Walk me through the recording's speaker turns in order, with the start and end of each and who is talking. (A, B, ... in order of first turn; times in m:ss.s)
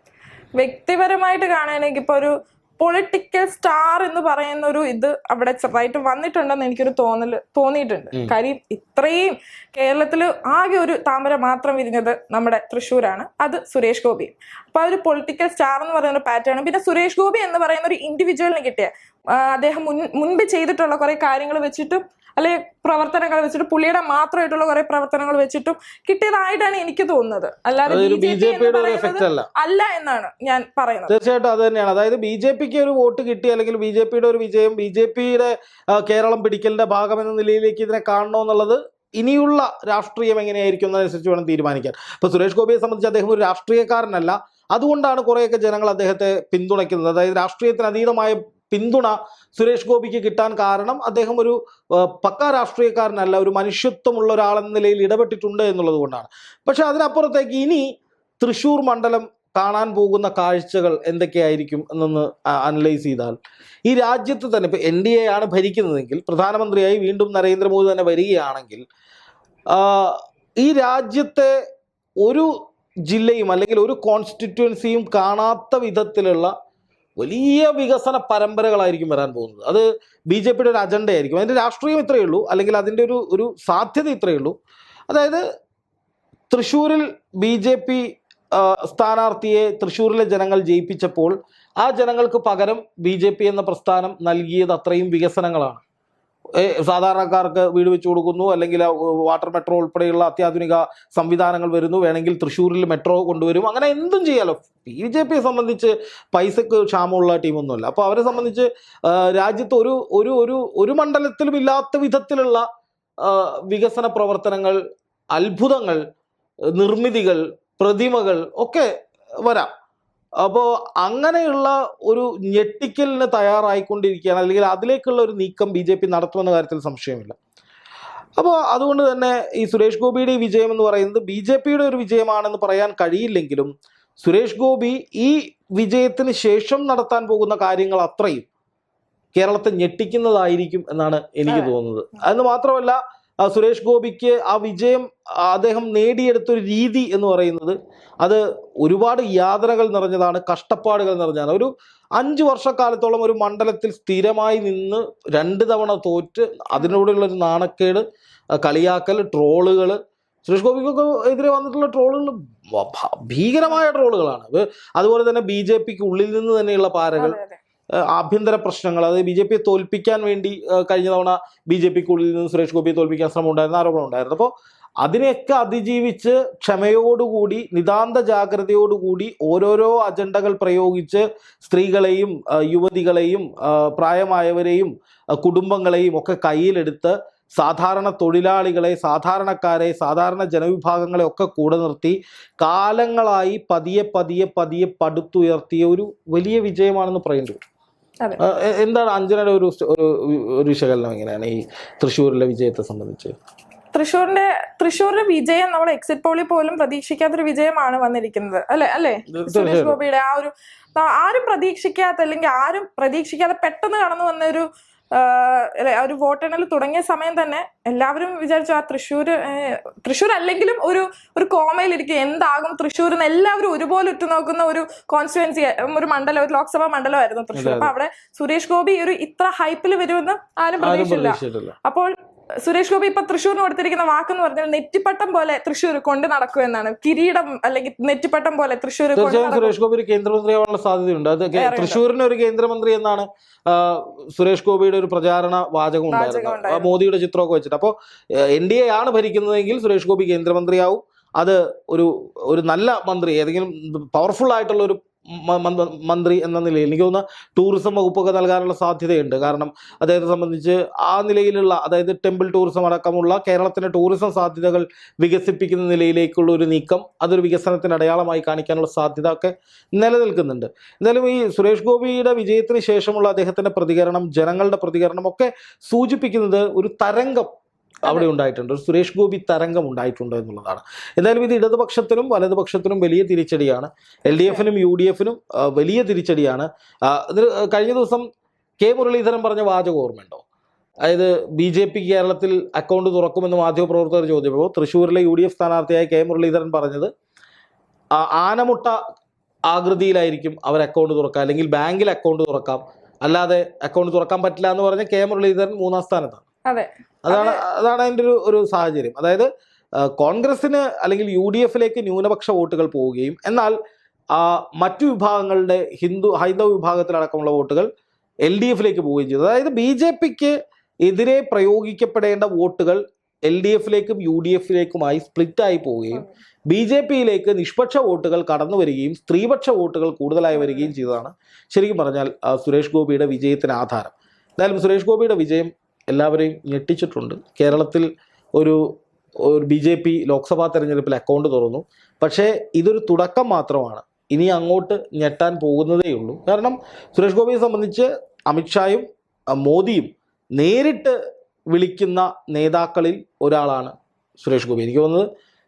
0:00.6-0:31.1 A
0:27.9-0:29.5 B
0:31.1-0:57.8 B
0:58.4-1:08.8 B
1:09.7-1:11.5 B
1:12.2-1:12.5 B
1:13.0-1:16.5 B
1:17.2-1:24.5 B
1:25.1-1:25.4 B
1:26.5-1:35.8 B
1:36.6-1:52.6 B
1:53.2-1:54.8 B
1:55.3-1:56.0 B
1:56.7-1:58.9 B
1:59.4-1:59.7 B
2:00.4-2:07.3 B
2:08.4-2:18.4 B
2:19.3-2:38.0 B
2:21.5-2:22.2 A
2:36.7-2:37.0 A
2:38.6-2:47.4 B
2:47.2-2:47.6 A
2:48.0-2:54.5 B
2:55.0-3:17.6 B
3:18.4-3:23.3 B
3:23.9-3:52.1 A
3:29.3-3:30.0 B
3:47.6-3:47.9 B
3:50.8-3:51.7 B
3:52.6-3:59.7 A
3:59.2-4:37.5 B
4:01.6-4:02.0 A
4:06.1-4:06.9 A
4:38.0-4:48.2 B
4:44.3-4:44.6 A
4:48.8-4:50.4 B
4:51.0-4:57.1 B
4:58.1-4:59.0 B
4:59.7-5:06.4 B
5:06.7-5:07.6 A
5:07.2-5:09.5 B
5:10.0-5:13.7 B
5:14.3-5:17.9 B
5:18.4-5:38.8 B
5:30.5-5:30.9 A
5:39.4-5:49.0 B
5:49.6-5:51.2 B
5:51.7-5:55.3 B